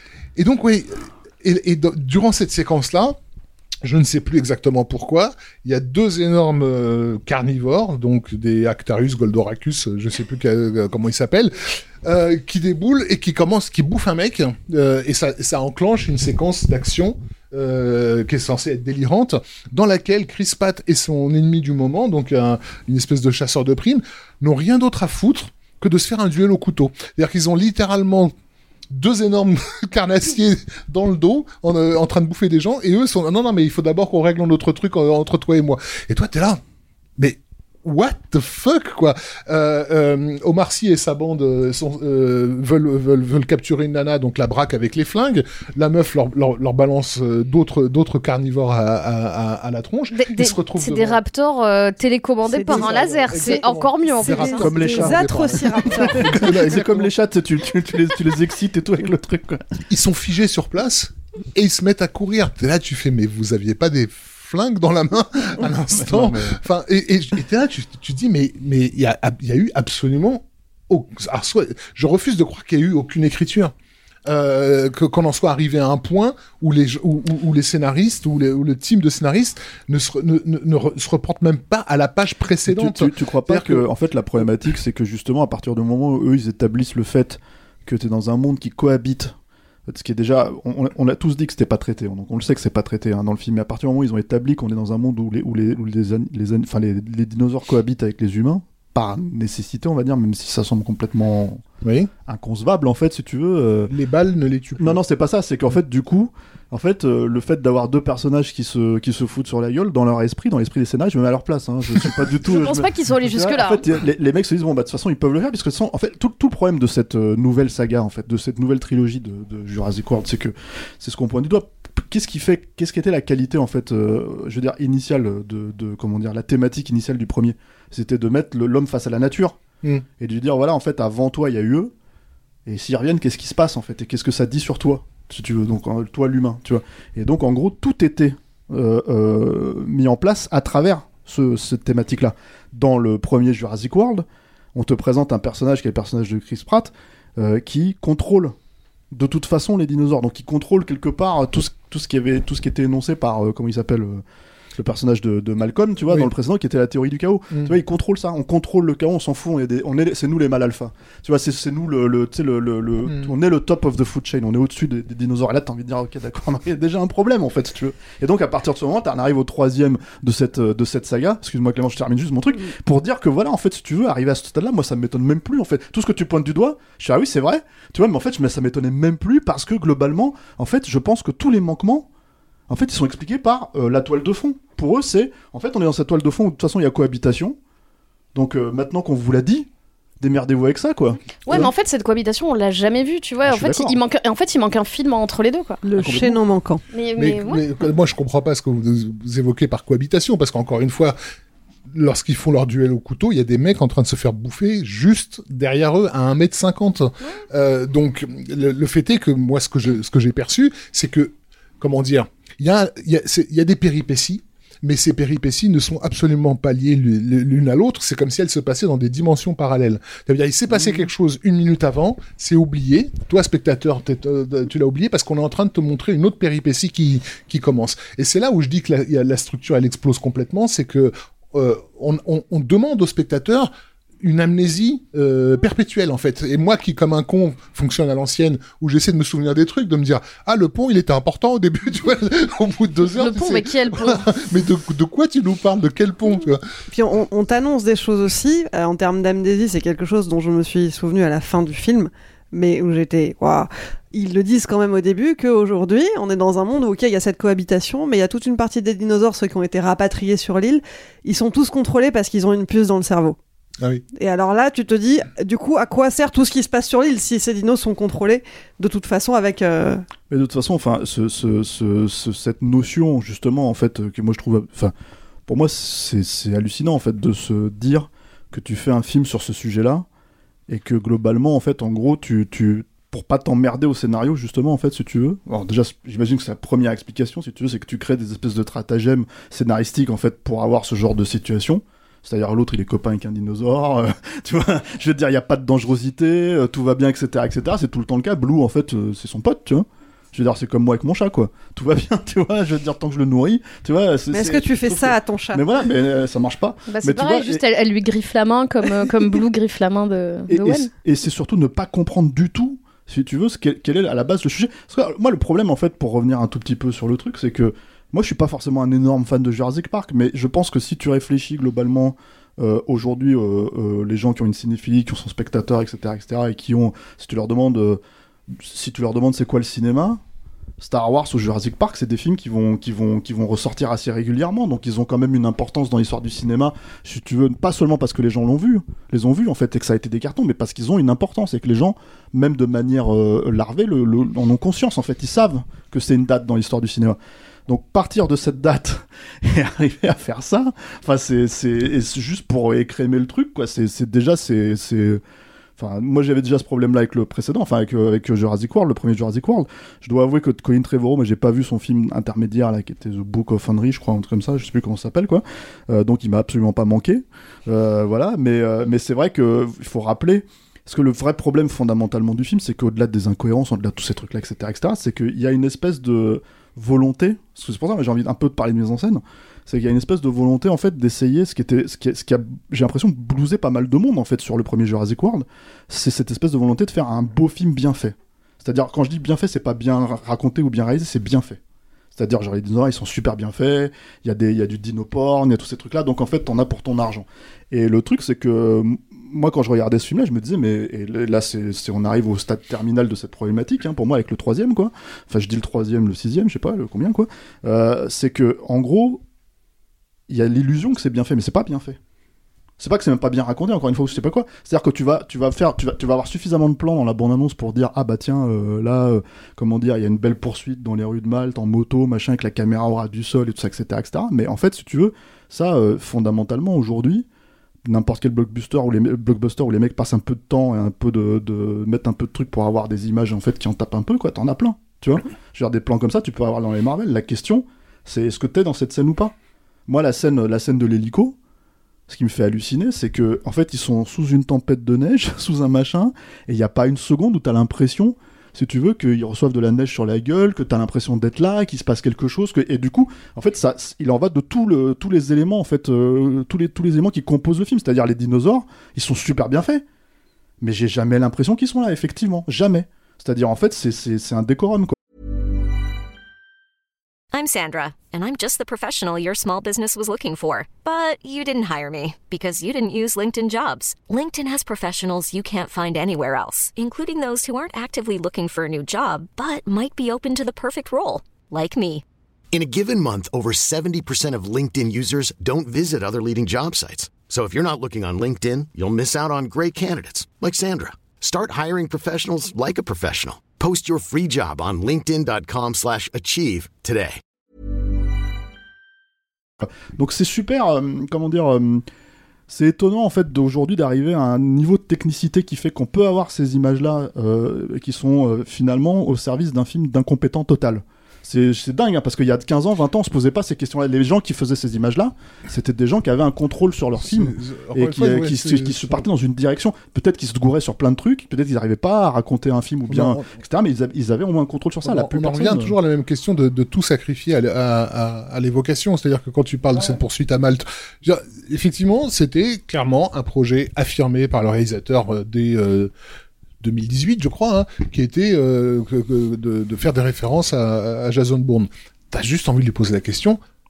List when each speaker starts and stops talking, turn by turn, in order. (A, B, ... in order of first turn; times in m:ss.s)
0:00.4-0:03.2 A
0:03.8-0:28.3 A
0:28.9-0:36.6 A
0:37.2-0:51.2 A
0:50.1-0:54.6 B
0:52.5-0:53.6 C
0:52.7-0:57.1 A
0:54.2-0:56.8 C
0:54.6-0:59.6 D
0:59.9-1:13.7 A
1:05.9-1:06.6 D
1:14.3-1:23.8 A
1:22.6-1:29.3 D
1:29.9-1:41.6 D
1:41.8-1:42.1 A
1:42.2-1:43.9 D
1:43.9-1:45.0 A
1:44.8-2:09.6 D
1:52.4-1:53.8 B
2:10.2-2:11.9 D
2:12.6-2:28.5 D
2:29.1-2:34.2 D
2:34.8-3:02.1 D
2:43.1-2:43.3 A
3:02.7-3:07.6 D
3:08.3-3:09.7 D
3:10.2-3:11.7 D
3:11.4-3:15.8 B
3:13.4-3:14.0 D
3:15.8-3:16.8 C
3:16.0-3:16.4 D
3:16.9-3:17.6 B
3:17.2-3:21.2 A
3:21.9-3:53.7 A
3:54.2-4:06.6 A
4:03.2-4:04.2 B
4:06.9-4:23.4 C
4:24.2-4:30.0 C
4:30.3-4:34.9 D
4:35.5-4:40.0 D
4:40.7-5:07.6 D
5:04.3-5:05.6 C
5:06.9-5:10.9 B
5:10.5-5:28.0 D
5:28.5-5:30.2 D
5:30.8-5:55.2 D
5:55.8-6:31.6 D
6:32.1-6:49.2 D
6:50.3-6:52.0 D
6:52.8-7:07.3 D
7:07.8-7:19.3 D
7:19.9-7:21.4 D
7:22.1-7:39.8 D
7:40.6-7:44.9 D
7:47.3-8:02.0 E
8:02.5-8:17.2 F
8:19.6-8:21.8 D
8:22.5-8:45.8 D
8:37.0-8:39.0 A
8:42.9-8:43.3 A
8:44.8-8:55.9 A
8:56.6-9:03.4 A